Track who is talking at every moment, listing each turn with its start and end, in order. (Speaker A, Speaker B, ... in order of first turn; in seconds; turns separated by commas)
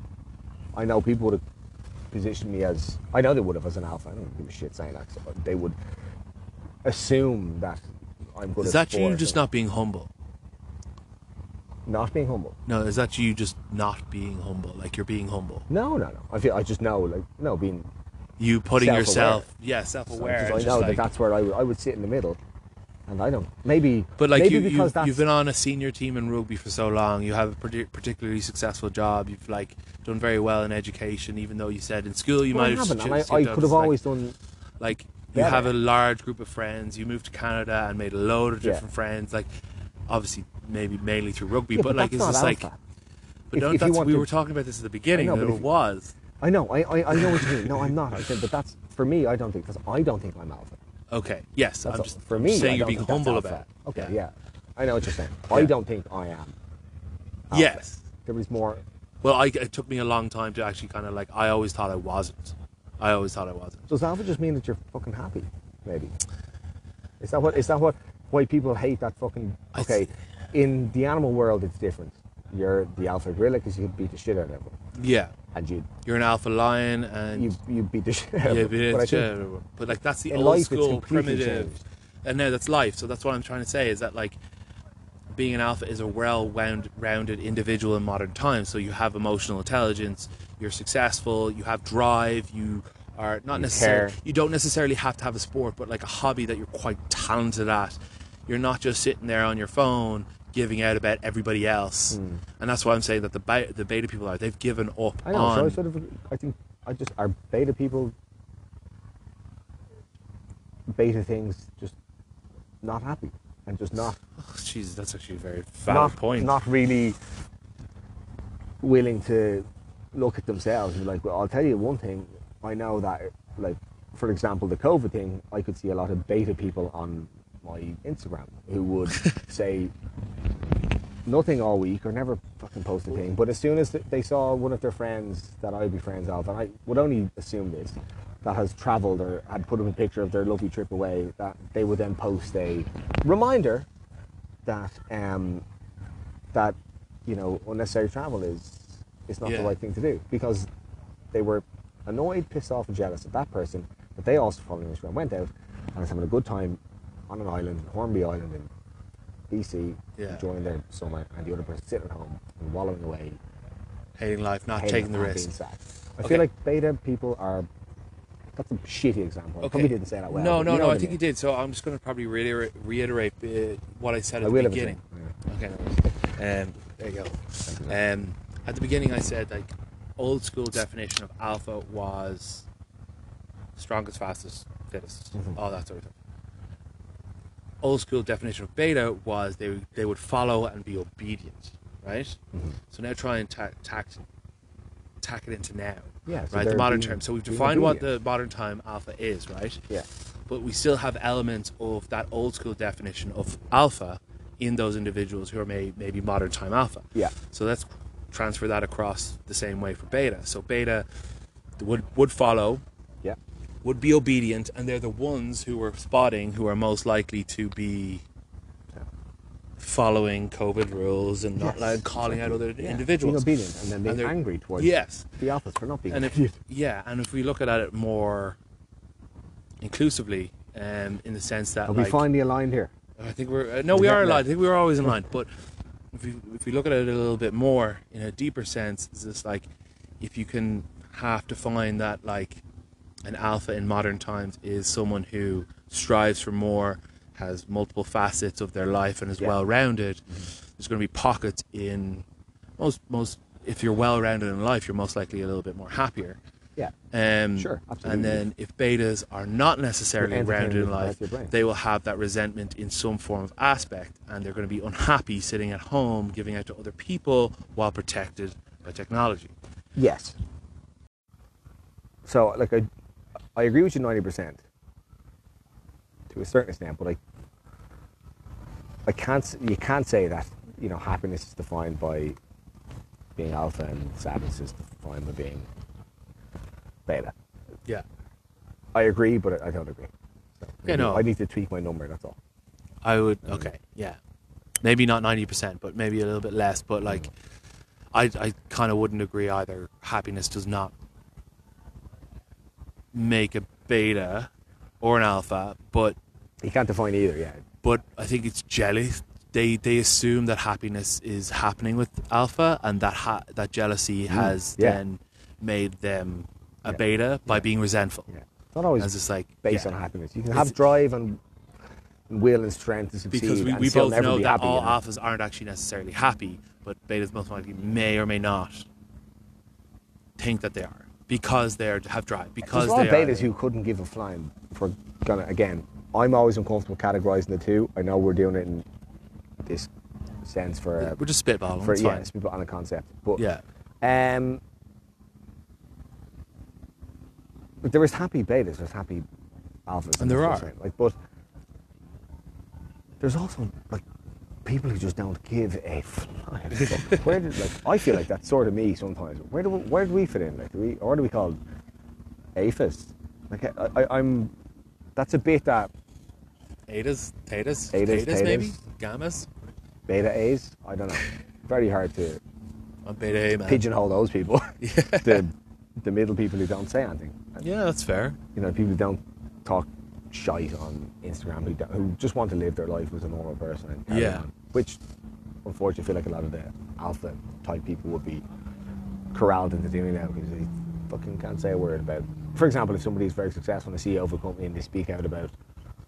Speaker A: 0.7-1.4, Speaker A: 2.1-5.8, Speaker A: 6.8-9.4, Speaker B: 8.6-10.1, Speaker A: 11.8-12.6, Speaker B: 12.7-15.7, Speaker A: 15.7-17.9, Speaker B: 18.4-21.1, Speaker A: 18.8-19.5, Speaker A: 20.1-22.4, Speaker A: 23.1-25.2, Speaker B: 24.2-34.0, Speaker A: 32.5-34.4, Speaker B: 34.8-39.5, Speaker A: 35.3-35.7, Speaker B: 40.1-42.7, Speaker A: 41.7-42.8, Speaker B: 43.5-46.1, Speaker A: 43.5-44.3, Speaker A: 45.1-45.6, Speaker A: 46.4-50.8, Speaker B: 47.1-47.9, Speaker B: 51.1-54.1, Speaker A: 51.8-56.5, Speaker A: 57.5-58.8, Speaker B: 57.5-58.0, Speaker B: 59.2-63.9, Speaker A: 63.9-66.1, Speaker A: 67.2-74.8, Speaker B: 69.7-70.1, Speaker B: 74.9-75.3, Speaker A: 75.5-75.9, Speaker B: 76.0-77.6, Speaker A: 77.3-79.3, Speaker B: 78.4-81.7, Speaker A: 80.3-81.8, Speaker B: 82.2-84.4, Speaker B: 85.3-105.8, Speaker A: 93.5-94.2, Speaker A: 102.1-102.4, Speaker A: 105.2-108.1, Speaker A: 110.9-112.0, Speaker A: 112.8-114.2, Speaker B: 114.4-116.6, Speaker A: 115.9-117.2, Speaker A: 118.8-129.9, Speaker A: 131.2-143.9, Speaker A: 144.6-145.6, Speaker A: 146.5-150.7, Speaker B: 149.4-149.8, Speaker A: 151.3-158.7, Speaker A: 159.5-163.4, Speaker B: 160.2-160.4, Speaker B: 164.2-165.5, Speaker A: 164.8-167.7, Speaker B: 166.2-166.5, Speaker A: 168.5-171.2, Speaker B: 169.6-182.7, Speaker A: 174.4-175.3, Speaker A: 177.7-177.9, Speaker B: 183.8-186.1, Speaker B: 187.8-194.2, Speaker B: 195.2-199.9, Speaker A: 196.2-198.1, Speaker B: 200.5-211.1, Speaker B: 211.8-212.8, Speaker B: 213.8-218.2, Speaker B: 219.8-223.5, Speaker A: 221.6-226.6, Speaker B: 224.0-225.2, Speaker B: 226.1-228.6, Speaker B: 229.8-232.2, Speaker A: 231.8-232.9, Speaker B: 233.2-235.5, Speaker A: 233.9-234.4, Speaker B: 236.1-239.7, Speaker B: 240.2-242.6, Speaker B: 243.2-250.2, Speaker B: 250.8-252.2, Speaker B: 252.8-256.4, Speaker B: 257.1-269.5, Speaker A: 257.6-258.4, Speaker A: 260.2-261.5, Speaker A: 269.9-270.4, Speaker A: 272.2-272.9, Speaker A: 273.5-274.6, Speaker A: 276.3-277.2, Speaker A: 279.1-282.4, Speaker A: 283.4-285.7, Speaker A: 287.1-287.3, Speaker A: 288.9-292.4, Speaker B: 290.9-291.3, Speaker B: 293.0-294.2, Speaker A: 293.4-293.7, Speaker B: 294.8-297.3, Speaker B: 298.1-300.9, Speaker B: 303.1-304.5, Speaker B: 305.0-306.2, Speaker A: 306.6-307.6, Speaker B: 307.8-318.3, Speaker A: 314.3-315.0, Speaker A: 316.9-317.7, Speaker A: 318.3-321.4, Speaker B: 319.0-319.9, Speaker A: 322.3-325.0, Speaker B: 323.3-328.9, Speaker B: 330.4-333.5, Speaker A: 332.6-338.9, Speaker A: 339.6-339.9, Speaker A: 340.4-341.2, Speaker B: 341.0-342.3, Speaker A: 341.8-343.4, Speaker B: 343.4-343.6, Speaker A: 344.0-344.6, Speaker A: 347.8-349.3, Speaker A: 349.9-351.2, Speaker B: 350.2-350.7, Speaker A: 353.2-354.0, Speaker A: 354.6-361.6, Speaker B: 356.7-357.4, Speaker A: 362.5-364.5, Speaker A: 365.1-365.9, Speaker B: 366.9-369.5, Speaker A: 367.9-368.8, Speaker A: 370.1-372.4, Speaker B: 373.0-373.9, Speaker A: 373.6-377.6, Speaker B: 374.8-375.4, Speaker B: 377.6-378.4, Speaker A: 378.5-385.0, Speaker B: 384.1-384.4, Speaker A: 385.6-388.4, Speaker A: 389.3-395.5